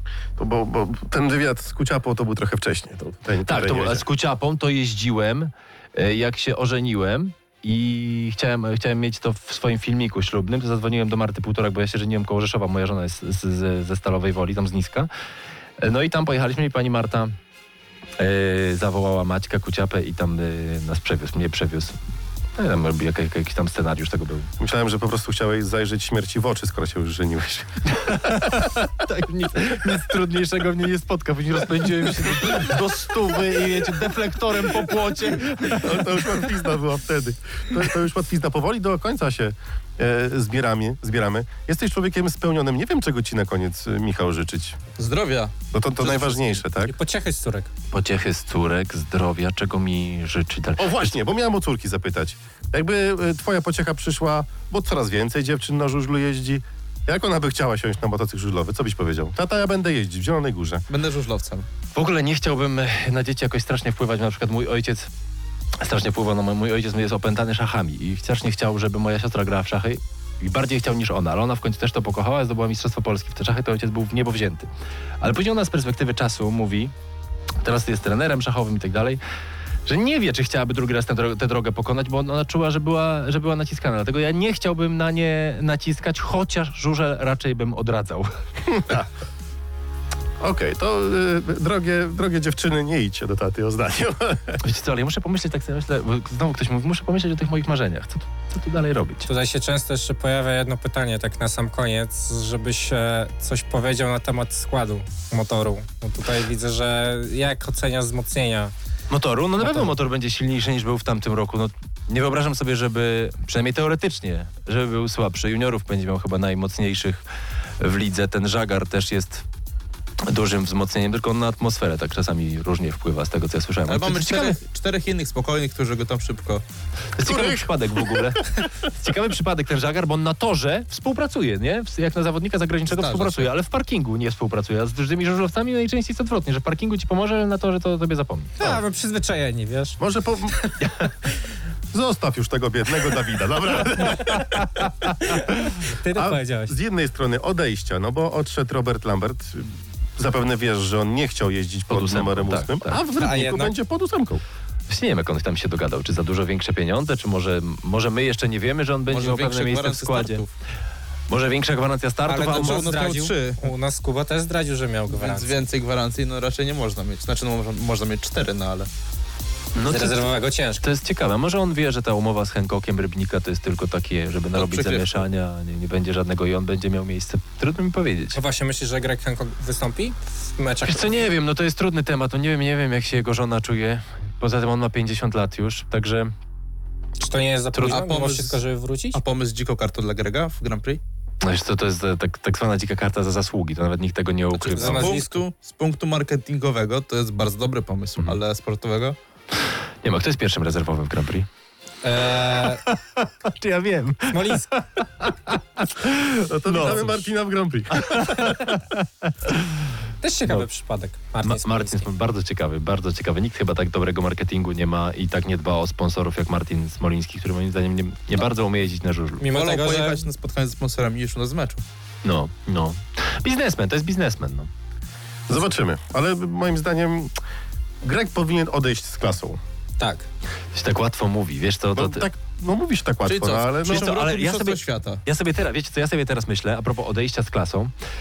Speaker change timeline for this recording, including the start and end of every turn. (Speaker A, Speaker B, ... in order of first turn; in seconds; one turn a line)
Speaker A: 0.4-4.0
Speaker B: 3.5-15.1
Speaker B: 15.8-17.4
Speaker B: 18.2-22.0
Speaker B: 22.6-24.5
Speaker A: 24.6-28.6
Speaker B: 27.9-36.4
Speaker A: 35.6-44.8
Speaker C: 45.0-46.6
Speaker A: 45.7-47.0
Speaker D: 46.8-47.7
Speaker B: 47.9-51.2
Speaker A: 50.8-60.8
Speaker C: 60.9-61.7
Speaker B: 62.0-65.1
Speaker B: 65.8-74.7
Speaker B: 75.2-76.9
Speaker B: 77.6-79.2
Speaker B: 79.9-88.3
Speaker A: 88.7-89.1
Speaker A: 90.4-94.6
Speaker B: 94.6-99.3
Speaker D: 99.2-108.7
Speaker B: 109.1-117.2
Speaker D: 109.6-109.9
Speaker B: 117.8-119.4
Speaker B: 120.3-124.6
Speaker C: 123.9-126.6
Speaker B: 127.2-138.6
Speaker A: 127.2-128.7
Speaker C: 132.9-133.5
Speaker D: 138.6-140.0
Speaker A: 140.0-140.7
Speaker A: 141.9-145.5
Speaker D: 144.2-146.7
Speaker A: 146.2-154.4
Speaker B: 151.9-153.0
Speaker D: 153.1-153.7
Speaker B: 154.9-160.4
Speaker C: 159.1-160.5
Speaker B: 161.3-162.9
Speaker D: 162.3-165.6
Speaker C: 162.4-163.6
Speaker C: 165.1-168.9
Speaker B: 169.8-178.4
Speaker D: 169.9-170.8
Speaker C: 174.6-175.2
Speaker D: 178.3-181.2
Speaker B: 180.8-186.3
Speaker D: 187.2-189.2
Speaker B: 187.7-188.1
Speaker C: 187.9-188.6
Speaker C: 189.1-191.0
Speaker B: 191.4-195.2
Speaker C: 194.6-199.2
Speaker D: 194.8-195.4
Speaker B: 200.0-201.5
Speaker D: 202.0-202.8
Speaker B: 202.3-207.1
Speaker D: 204.3-204.7
Speaker A: 206.5-208.6
Speaker B: 208.1-209.7
Speaker D: 210.2-212.1
Speaker B: 211.4-219.5
Speaker D: 219.4-220.2
Speaker C: 219.5-221.8
Speaker B: 222.2-224.7
Speaker A: 225.5-227.3
Speaker A: 228.0-229.6
Speaker D: 230.0-230.2
Speaker B: 230.7-232.2
Speaker A: 231.9-234.1
Speaker C: 233.3-235.2
Speaker B: 233.8-237.9